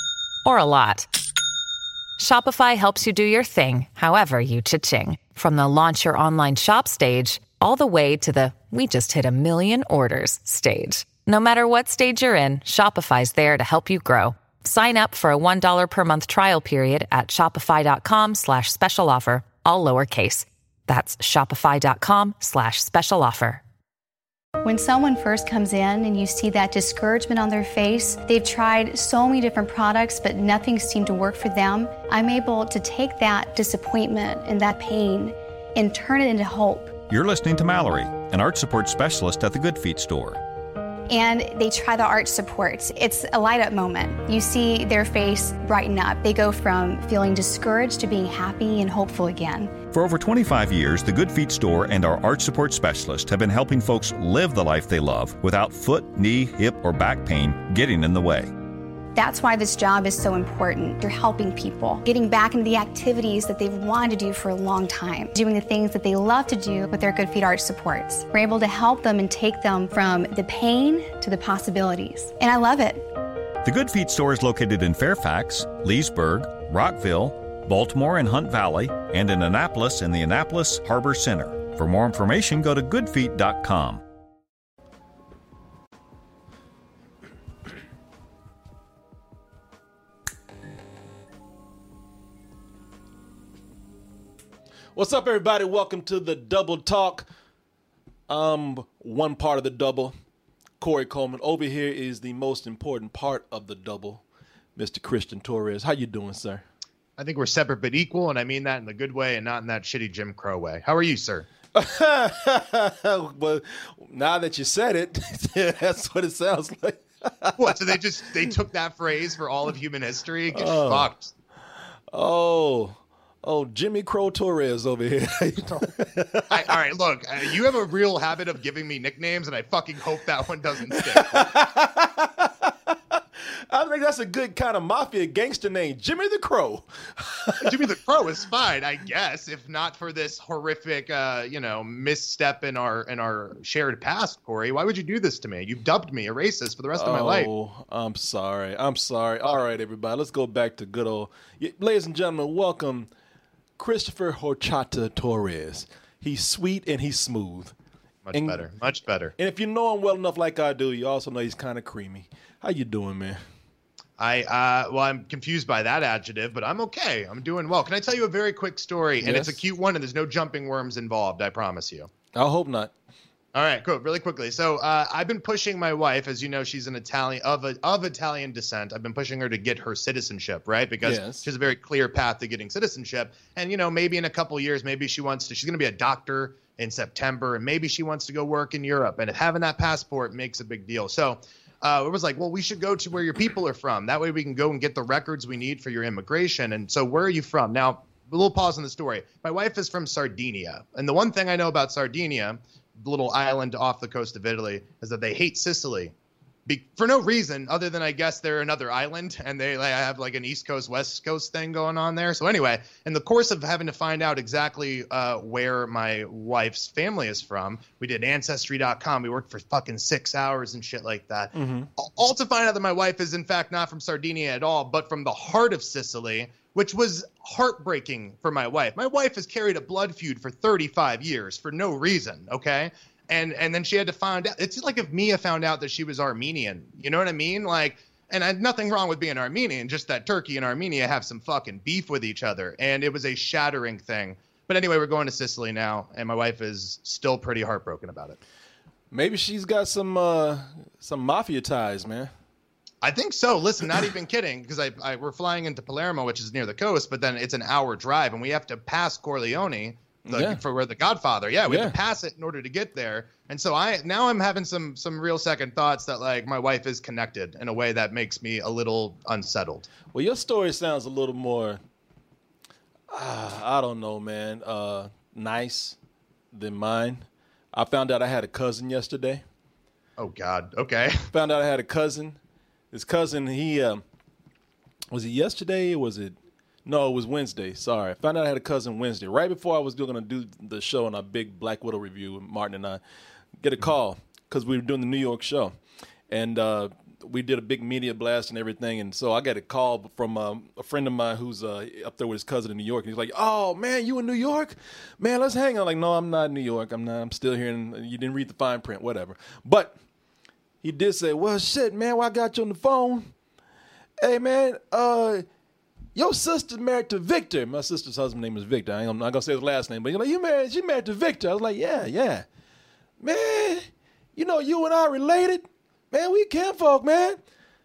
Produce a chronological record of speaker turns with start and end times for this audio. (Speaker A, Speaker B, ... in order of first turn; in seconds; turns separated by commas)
Speaker A: 0.4-1.1, Speaker A: 2.2-23.6, Speaker B: 24.6-36.9, Speaker C: 37.1-40.4, Speaker B: 41.1-49.7, Speaker C: 49.9-58.5, Speaker B: 59.1-73.0, Speaker C: 73.6-84.0, Speaker D: 95.0-97.3, Speaker D: 98.3-100.1, Speaker D: 100.8-104.2, Speaker D: 104.8-106.6, Speaker E: 107.2-111.5, Speaker D: 111.7-117.9, Speaker E: 117.6-121.3, Speaker D: 120.5-121.1, Speaker D: 122.1-126.7, Speaker E: 126.5-131.5, Speaker D: 130.9-137.8, Speaker E: 137.6-147.5, Speaker D: 146.9-153.1, Speaker D: 153.8-157.7, Speaker E: 158.2-159.3, Speaker D: 158.3-158.7, Speaker D: 159.3-163.4, Speaker E: 164.2-172.1, Speaker D: 169.2-169.6, Speaker D: 172.3-172.9, Speaker E: 173.5-206.1, Speaker D: 181.0-181.5, Speaker E: 206.7-248.4, Speaker D: 221.5-221.9, Speaker D: 249.1-252.3, Speaker E: 253.0-269.9, Speaker D: 260.2-260.6, Speaker D: 261.7-261.9, Speaker D: 270.1-271.8, Speaker D: 273.1-276.0, Speaker D: 276.5-279.4, Speaker E: 280.2-281.3, Speaker D: 281.3-282.4, Speaker D: 282.9-284.0, Speaker D: 285.1-293.0, Speaker D: 293.6-295.8, Speaker D: 296.3-309.9, Speaker D: 310.8-313.3, Speaker D: 314.2-315.4, Speaker D: 316.1-322.4, Speaker D: 323.2-327.4